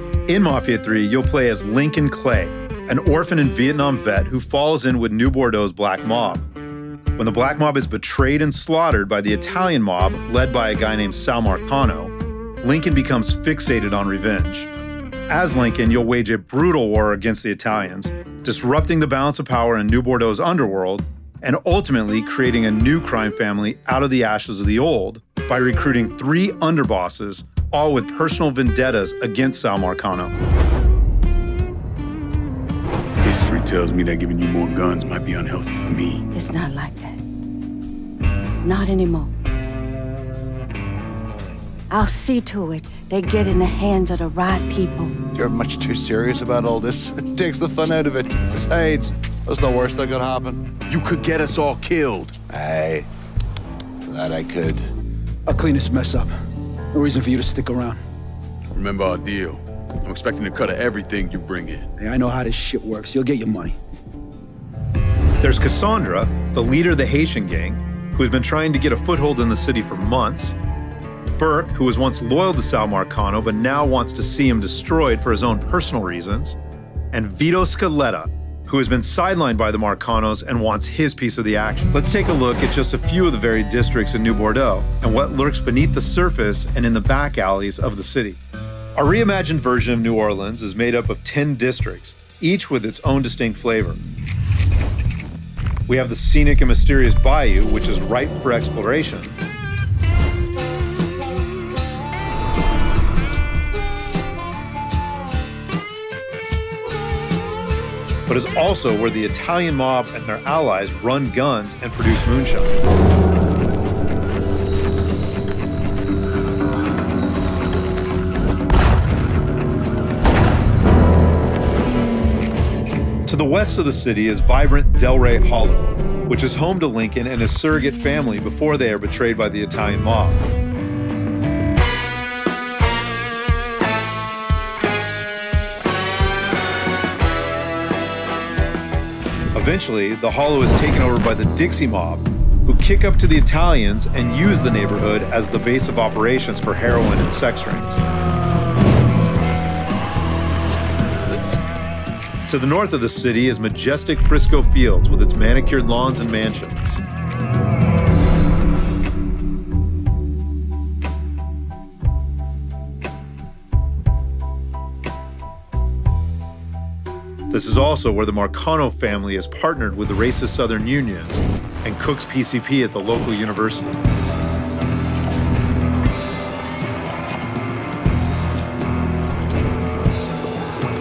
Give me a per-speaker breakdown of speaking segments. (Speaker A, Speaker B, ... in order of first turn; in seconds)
Speaker A: 0.3-6.5, 7.2-14.7, 15.3-30.3, 65.4-70.5, 71.4-76.6, 77.1-88.4, 89.0-94.0, 95.9-99.3, 108.3-112.7, 123.2-130.4, 139.5-148.0, 152.5-157.0, 167.5-174.0
Speaker B: 33.2-36.2, 50.9-52.3, 58.7-61.9
Speaker C: 36.3-37.2, 38.6-39.3, 41.9-45.2
Speaker D: 45.3-50.7, 52.5-53.1, 54.1-54.9
Speaker E: 55.5-56.3, 56.9-58.0, 62.0-63.8